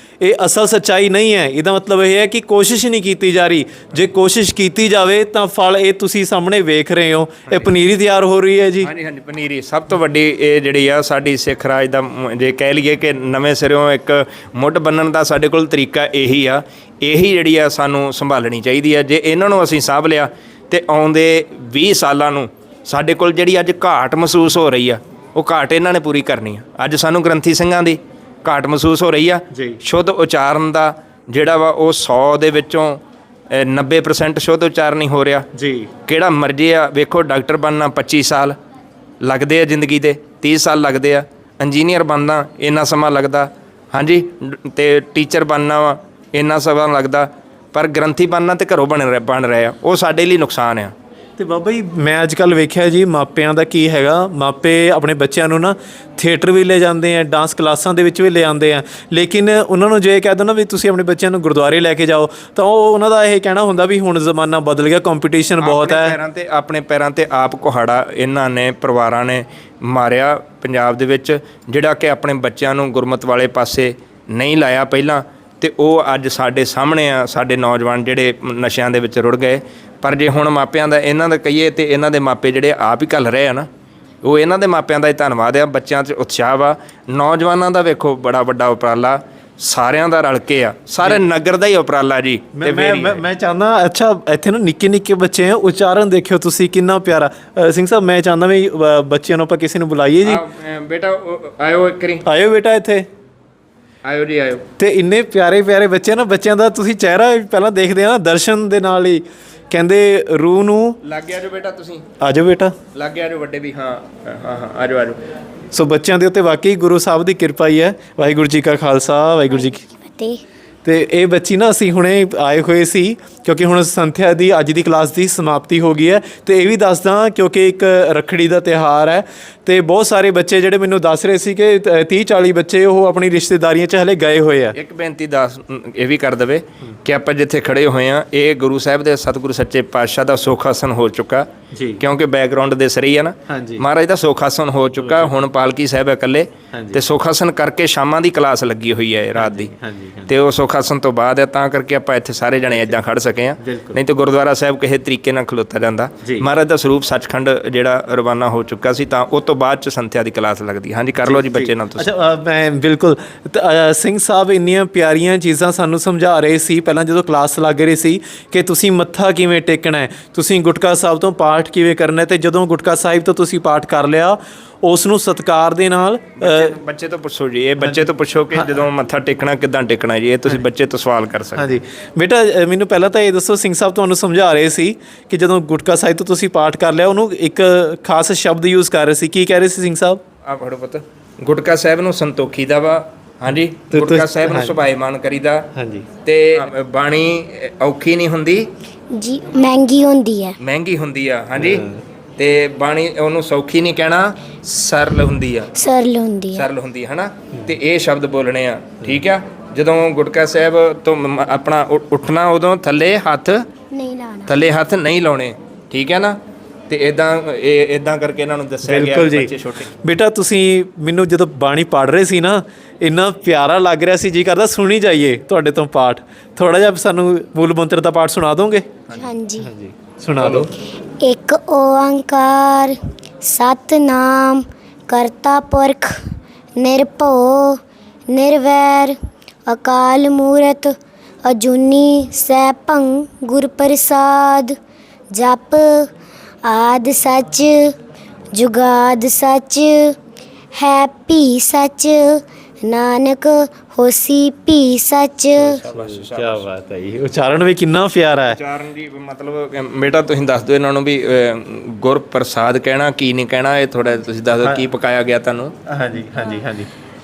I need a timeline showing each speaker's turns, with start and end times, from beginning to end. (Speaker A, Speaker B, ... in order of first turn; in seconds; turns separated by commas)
Speaker A: 0.2-8.9, Speaker B: 8.8-35.5, Speaker A: 29.5-29.8, Speaker A: 35.5-35.9, Speaker B: 36.0-38.5, Speaker B: 39.2-50.9, Speaker A: 51.4-66.2, Speaker B: 65.6-83.7, Speaker B: 84.2-93.2, Speaker A: 92.5-100.4, Speaker B: 100.2-102.2, Speaker A: 102.2-103.1, Speaker B: 104.0-104.7, Speaker A: 104.8-111.0, Speaker B: 111.0-112.0, Speaker A: 112.2-112.8, Speaker B: 112.9-115.2, Speaker A: 115.7-119.8, Speaker C: 119.6-120.4, Speaker A: 120.8-134.8, Speaker B: 134.7-141.5, Speaker A: 141.7-142.0, Speaker B: 142.0-149.7, Speaker A: 143.5-143.8, Speaker A: 145.0-145.3, Speaker A: 146.7-147.0, Speaker A: 149.3-150.3, Speaker B: 150.3-162.1, Speaker A: 153.6-154.0, Speaker A: 156.2-156.5, Speaker A: 161.2-176.7, Speaker B: 176.4-181.7, Speaker A: 177.8-178.7, Speaker A: 181.6-190.2, Speaker B: 190.4-195.7, Speaker A: 193.9-194.8, Speaker A: 195.7-196.1, Speaker B: 196.2-198.7, Speaker C: 199.1-200.6, Speaker B: 200.6-201.8, Speaker A: 201.6-202.0, Speaker B: 202.4-205.7, Speaker C: 205.8-206.7, Speaker B: 206.5-213.7, Speaker C: 213.9-214.5, Speaker B: 214.5-216.4, Speaker B: 216.9-219.9, Speaker A: 218.8-219.5, Speaker A: 220.0-228.9, Speaker C: 229.1-229.7, Speaker A: 229.6-230.7, Speaker C: 231.2-236.2, Speaker C: 236.8-244.8, Speaker C: 245.3-246.1, Speaker C: 246.7-247.9, Speaker C: 248.5-250.2, Speaker C: 250.8-255.8, Speaker A: 255.6-258.6, Speaker B: 255.8-256.7, Speaker B: 258.5-265.7, Speaker A: 264.6-264.8, Speaker A: 265.9-266.9